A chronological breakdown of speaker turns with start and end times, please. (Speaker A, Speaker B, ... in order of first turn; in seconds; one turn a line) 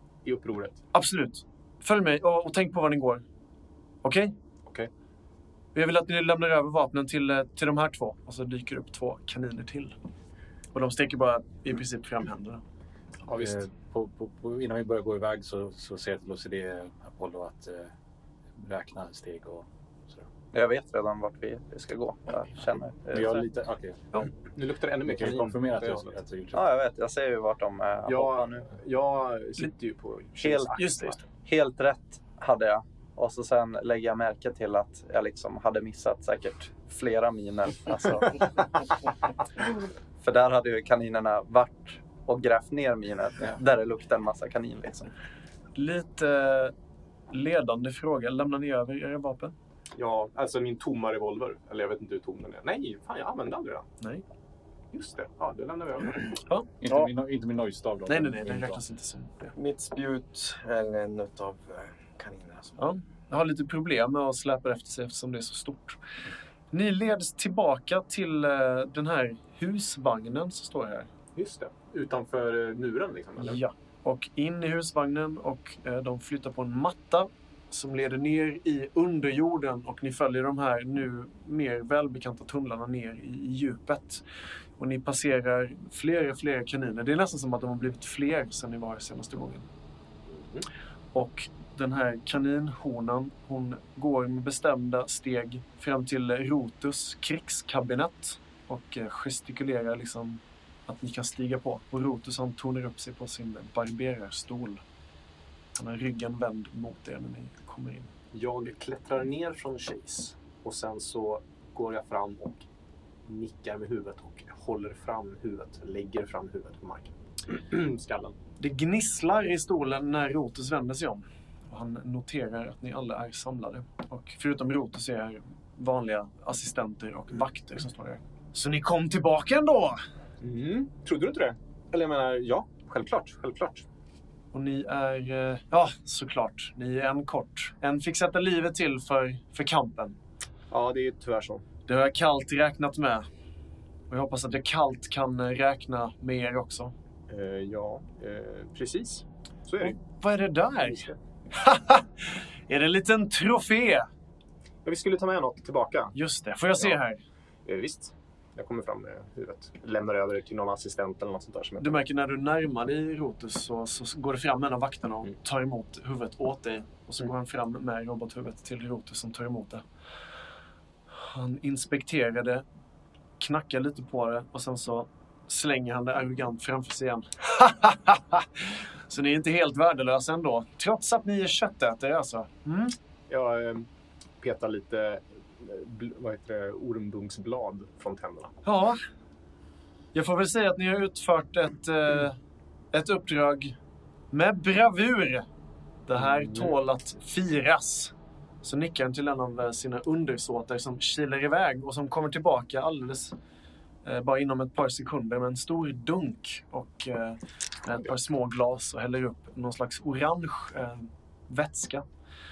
Speaker A: 0.2-0.8
Speaker B: 0.9-3.2
Speaker B: 4.0-4.3
Speaker B: 5.7-9.9
Speaker B: 10.7-12.6
Speaker A: 13.2-13.7
Speaker C: 13.3-17.9
Speaker C: 18.5-20.3
Speaker D: 20.5-23.4
Speaker C: 23.1-24.3
Speaker A: 24.5-26.1
Speaker C: 25.0-26.6
Speaker D: 26.5-28.7
Speaker A: 28.1-31.2
Speaker D: 30.4-30.8
Speaker B: 30.7-31.2
Speaker D: 31.3-38.9
Speaker D: 40.2-45.1
Speaker B: 45.8-46.7
Speaker B: 47.3-49.5
Speaker A: 50.0-53.9
Speaker A: 54.9-56.4
Speaker C: 56.8-58.8
Speaker B: 58.1-59.5
Speaker E: 59.5-62.8
Speaker B: 62.8-66.0
Speaker B: 66.7-71.1
Speaker A: 71.3-73.6
Speaker B: 73.4-84.2
Speaker B: 84.8-89.7
Speaker A: 90.3-90.6
Speaker B: 91.1-104.8
Speaker B: 105.7-108.1
Speaker A: 108.3-112.6
Speaker A: 113.2-118.3
Speaker B: 118.6-130.0
Speaker A: 130.4-133.8
Speaker B: 134.5-140.2
Speaker A: 140.7-141.6
Speaker B: 141.9-143.3
Speaker B: 144.1-146.9
Speaker A: 147.3-150.0
Speaker B: 149.8-154.1
Speaker A: 154.8-156.1
Speaker B: 156.1-157.2
Speaker A: 157.7-162.0
Speaker B: 161.8-169.8
Speaker B: 171.1-172.6
Speaker B: 173.4-182.9
Speaker A: 183.3-183.9
Speaker A: 184.4-188.5
Speaker B: 188.6-189.0
Speaker B: 190.1-192.4
Speaker B: 192.9-193.8
Speaker B: 194.3-195.4
Speaker B: 196.1-203.3
Speaker A: 196.2-196.7
Speaker B: 204.0-212.1